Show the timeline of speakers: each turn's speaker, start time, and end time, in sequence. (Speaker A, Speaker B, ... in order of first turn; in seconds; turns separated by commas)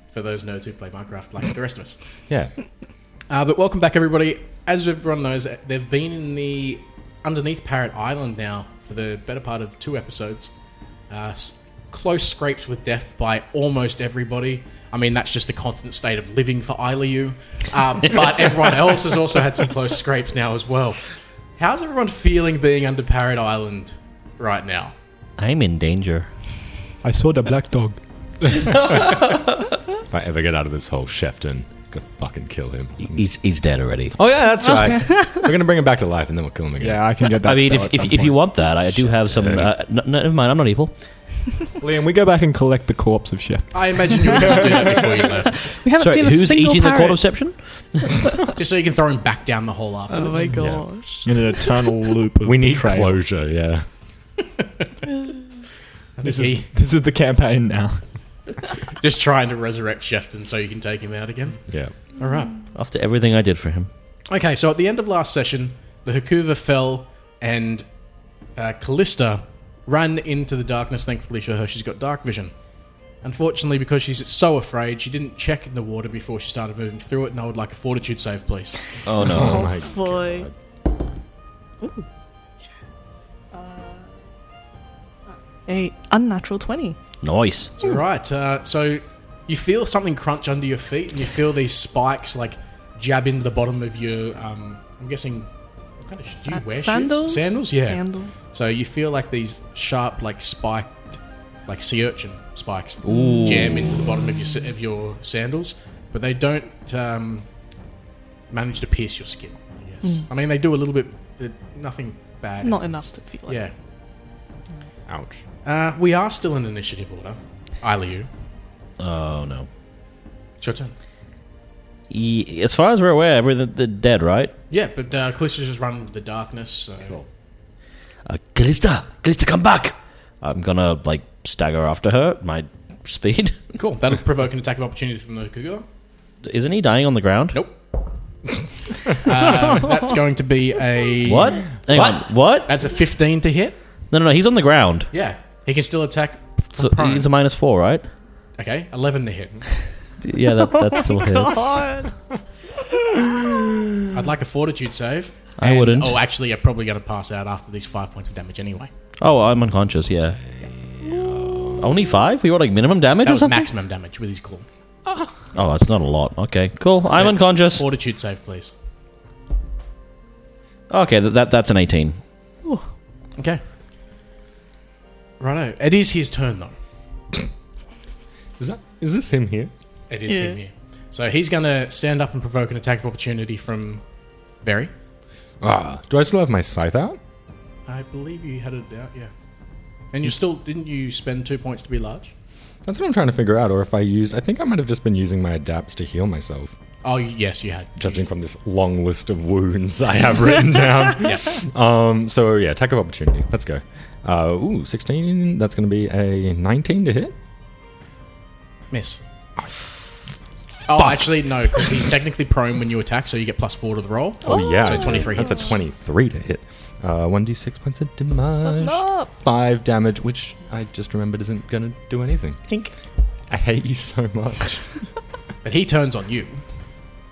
Speaker A: 0.1-2.0, Speaker A: 3.3-10.5, Speaker A: 11.1-21.1, Speaker A: 21.6-24.9, Speaker B: 25.4-26.3, Speaker C: 27.0-28.0, Speaker D: 28.7-29.2, Speaker D: 30.0-33.2, Speaker B: 33.0-34.1, Speaker D: 34.1-37.1, Speaker E: 34.6-35.5, Speaker C: 36.8-38.6, Speaker B: 37.4-40.9, Speaker D: 39.3-39.7, Speaker C: 41.8-44.6, Speaker A: 43.7-45.7, Speaker E: 45.7-47.2, Speaker B: 46.0-47.6, Speaker A: 48.5-50.5, Speaker E: 50.1-51.4, Speaker D: 50.6-50.8, Speaker C: 51.2-53.2, Speaker D: 52.4-53.8, Speaker A: 56.2-56.7, Speaker C: 56.2-58.0, Speaker A: 59.0-61.6, Speaker D: 61.7-61.9, Speaker A: 62.1-62.6, Speaker B: 62.7-63.9, Speaker A: 64.3-67.8, Speaker A: 68.5-72.5, Speaker A: 73.2-78.9, Speaker B: 79.0-79.7, Speaker D: 79.1-80.5, Speaker E: 79.3-80.5, Speaker E: 81.8-82.0, Speaker E: 83.5-84.0, Speaker E: 85.7-87.0, Speaker B: 87.2-87.7, Speaker A: 87.8-95.5, Speaker A: 96.0-107.5, Speaker E: 96.5-98.3, Speaker B: 103.0-103.9, Speaker E: 103.1-103.6, Speaker A: 108.5-113.7, Speaker E: 112.6-113.6, Speaker D: 115.1-115.4, Speaker A: 115.6-118.3, Speaker B: 119.0-119.7, Speaker A: 120.6-120.9, Speaker B: 122.1-124.5, Speaker A: 124.7-127.2, Speaker B: 128.2-133.6, Speaker A: 133.8-135.8, Speaker B: 136.4-137.6, Speaker A: 139.1-141.7, Speaker B: 141.2-142.7, Speaker D: 141.9-142.2, Speaker A: 142.7-143.8, Speaker B: 144.1-145.1, Speaker A: 145.1-147.3, Speaker B: 146.8-148.1, Speaker A: 148.6-149.7, Speaker B: 150.2-151.8, Speaker E: 150.9-152.1, Speaker D: 153.3-153.9, Speaker A: 154.1-158.9, Speaker B: 155.6-156.2, Speaker B: 159.2-160.4, Speaker D: 160.4-161.9, Speaker B: 161.8-163.7, Speaker A: 163.2-164.7, Speaker D: 165.1-165.3, Speaker B: 165.5-167.9, Speaker A: 167.2-168.7, Speaker B: 170.9-172.2, Speaker A: 175.4-176.8, Speaker D: 178.6-179.7, Speaker A: 180.1-184.0, Speaker E: 180.3-180.6, Speaker A: 184.6-184.9, Speaker D: 185.6-187.2, Speaker A: 187.9-189.3, Speaker A: 190.1-192.3, Speaker D: 192.8-196.7, Speaker A: 197.0-198.2, Speaker D: 198.0-207.3, Speaker A: 201.2-201.5, Speaker A: 208.9-209.2, Speaker A: 210.9-215.8, Speaker D: 210.9-211.2, Speaker E: 214.4-215.5, Speaker D: 214.4-222.7, Speaker E: 218.6-219.3, Speaker D: 223.5-225.0, Speaker A: 225.6-226.6